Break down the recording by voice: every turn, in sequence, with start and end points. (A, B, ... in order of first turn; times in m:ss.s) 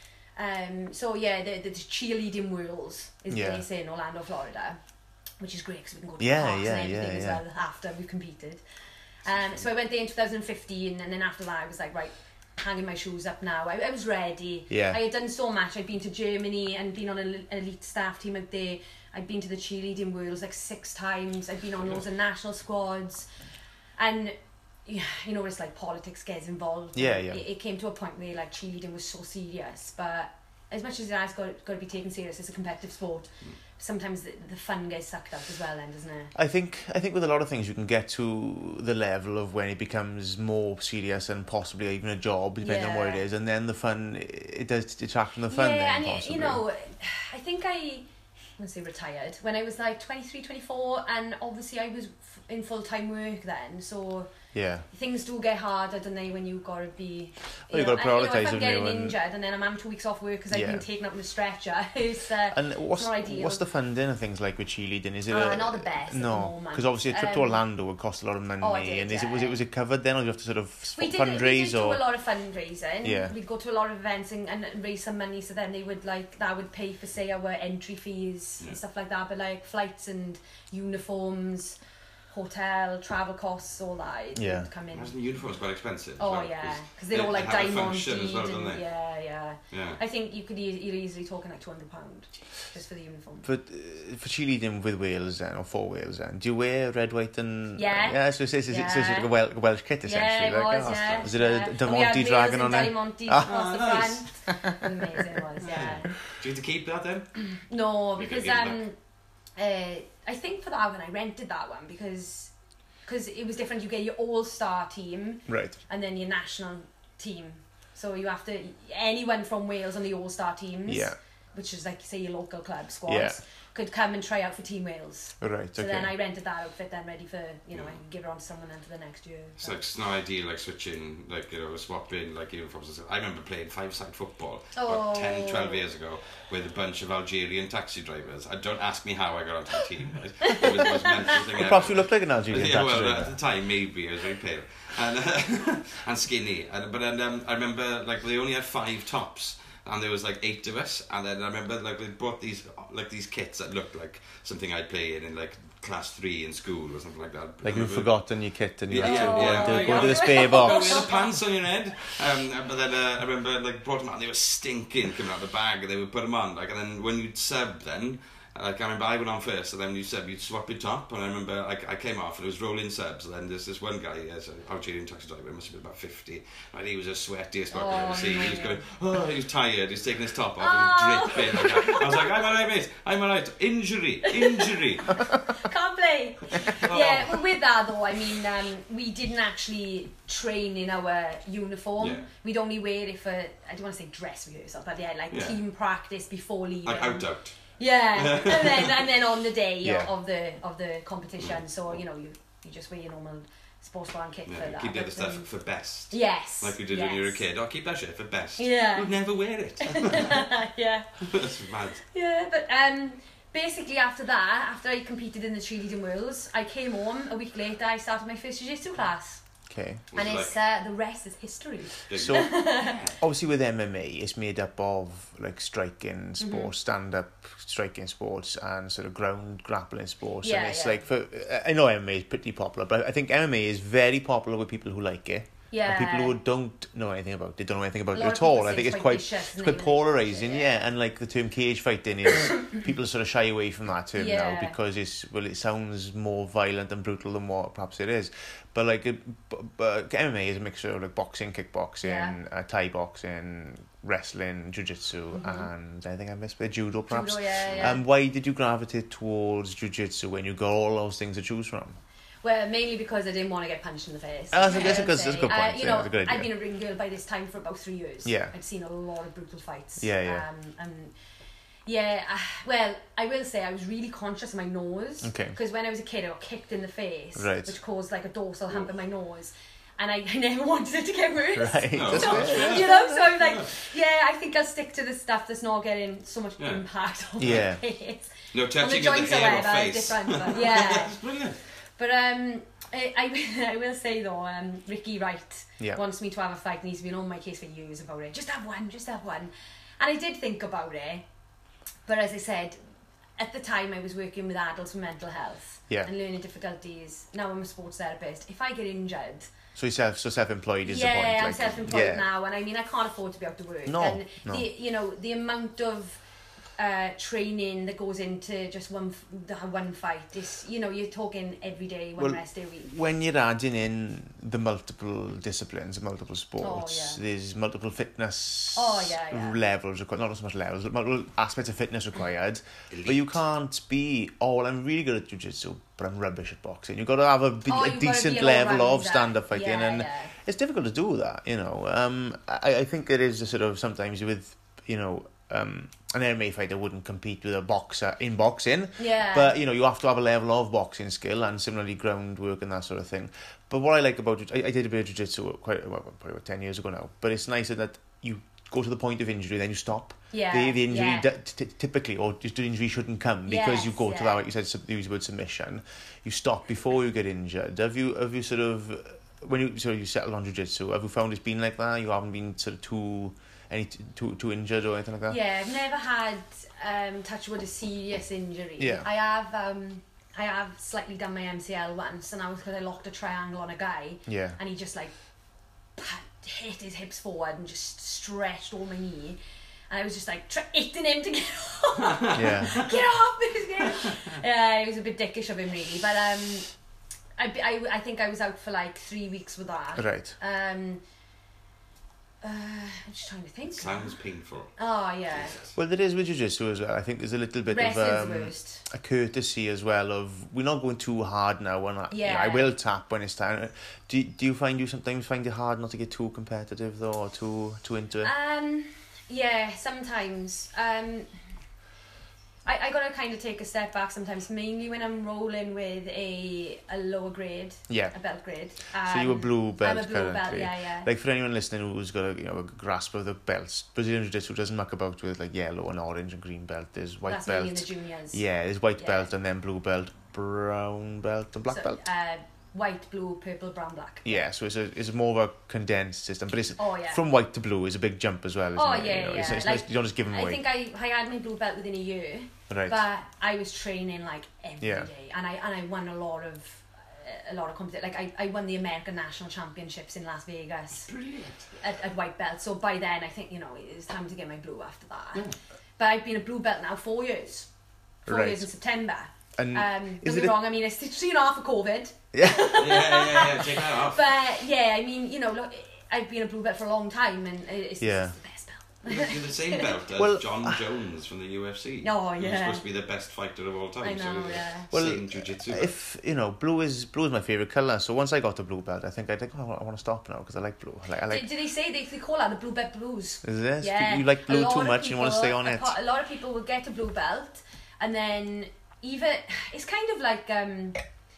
0:00.4-0:04.8 A
0:03.3-0:03.6 B
0:05.4-0:08.6 A
0:06.2-0:07.4 B
0:09.2-0:23.3 A
0:14.7-0:15.0 B
0:24.0-0:36.3 A
0:27.0-0:27.4 B
0:36.4-0:46.6 B
0:42.6-0:43.2 A
0:45.5-0:48.1 A
0:48.6-0:54.3 A
0:54.5-0:54.9 B
0:54.9-1:03.6 A
0:57.7-0:59.2 B
1:00.5-1:00.8 B
1:02.5-1:12.0 B
1:05.3-1:07.6 A
1:08.6-1:09.6 A
1:11.0-1:21.8 A
1:13.0-1:13.3 B
1:22.3-1:25.1 A
1:24.4-1:24.7 B
1:24.9-1:28.8 C
1:26.2-1:33.5 A
1:29.7-1:30.0 C
1:33.4-1:43.6 B
1:37.8-1:39.3 A
1:40.0-1:46.1 A
1:43.4-1:44.2 C
1:44.5-1:45.2 B
1:45.6-1:47.4 C
1:47.7-1:49.0 A
1:48.2-1:48.8 C
1:49.6-1:52.5 A
1:53.0-2:09.8 A
1:55.5-1:55.8 B
2:00.9-2:01.2 B
2:03.1-2:03.4 B
2:05.4-2:06.1 B
2:09.6-2:38.1 C
2:14.8-2:15.8 A
2:21.5-2:23.4 B
2:37.6-2:41.1 B
2:38.9-3:05.1 C
2:39.0-2:41.3 A
2:57.7-2:58.8 A
3:00.6-3:02.4 A
3:04.3-3:04.8 A
3:05.5-3:17.3 A
3:06.7-3:07.4 C
3:12.0-3:12.3 C
3:15.3-3:15.6 C
3:16.8-3:17.6 C
3:17.8-3:25.5 A
3:18.2-3:19.1 C
3:19.8-3:20.1 B
3:24.5-3:30.5 C
3:26.1-3:27.4 A
3:28.6-3:29.1 A
3:29.8-3:31.1 A
3:31.2-3:32.0 C
3:32.1-3:39.4 A
3:39.7-3:40.0 B
3:40.1-3:40.5 C
3:40.1-3:43.0 A
3:42.1-3:43.2 C
3:42.1-3:42.6 B
3:43.2-4:22.0 B
3:46.4-3:46.7 A
3:50.4-3:51.0 A
3:55.7-3:56.4 A
3:58.1-4:00.7 A
4:04.2-4:04.8 A
4:12.0-4:12.4 A
4:15.4-4:15.7 A
4:17.1-4:18.0 A
4:22.4-4:31.1 A
4:24.5-4:26.5 B
4:28.2-4:28.5 B
4:30.0-4:30.4 B
4:31.9-4:51.2 A
4:35.2-4:35.6 B
4:37.4-4:37.7 B
4:41.6-4:43.3 B
4:41.9-4:43.7 C
4:47.4-4:47.8 B
4:48.5-4:51.6 C
4:52.0-5:01.2 A
5:02.1-5:02.8 A
5:03.4-5:09.5 A
5:09.8-5:12.2 B
5:10.8-5:16.2 A
5:13.9-5:14.6 B
5:16.8-5:22.9 A
5:22.2-6:15.4 B
5:26.6-5:27.2 A
5:28.7-5:29.6 A
5:32.9-5:33.3 C
5:37.7-5:40.3 A
5:49.0-5:49.6 A
6:00.3-6:01.3 A
6:03.5-6:04.4 A
6:15.3-6:25.1 A
6:18.8-6:19.1 B
6:24.3-6:24.6 B
6:26.0-6:29.4 A
6:29.9-6:36.7 A
6:32.1-6:33.0 C
6:32.3-6:32.8 B
6:37.4-6:41.0 A
6:40.0-6:40.4 B
6:42.4-6:44.2 A
6:43.8-6:44.7 C
6:44.8-6:45.6 A
6:45.3-6:45.7 C
6:45.8-6:58.3 B
6:47.7-6:48.8 A
6:52.1-6:52.7 A
6:58.2-7:01.3 A
7:02.6-7:11.1 A
7:07.9-7:08.1 B
7:09.0-7:22.0 B
7:17.3-7:18.4 A
7:19.0-7:19.3 A
7:21.7-7:24.4 A
7:24.2-7:30.6 B
7:26.8-7:27.2 A
7:28.8-7:41.1 A
7:32.7-7:33.0 B
7:34.8-7:35.1 B
7:41.1-7:41.7 C
7:41.8-7:45.5 A
7:46.0-7:47.7 A
7:48.3-7:48.7 B
7:48.3-8:00.0 A
7:49.6-7:50.6 B
7:52.3-7:52.9 B
7:52.7-7:54.3 C
7:58.0-7:58.4 B
7:59.0-8:05.9 C
8:00.2-8:00.8 B
8:02.0-8:02.8 A
8:04.0-8:04.9 A
8:04.9-8:11.5 B
8:11.3-8:21.0 A
8:13.4-8:16.0 B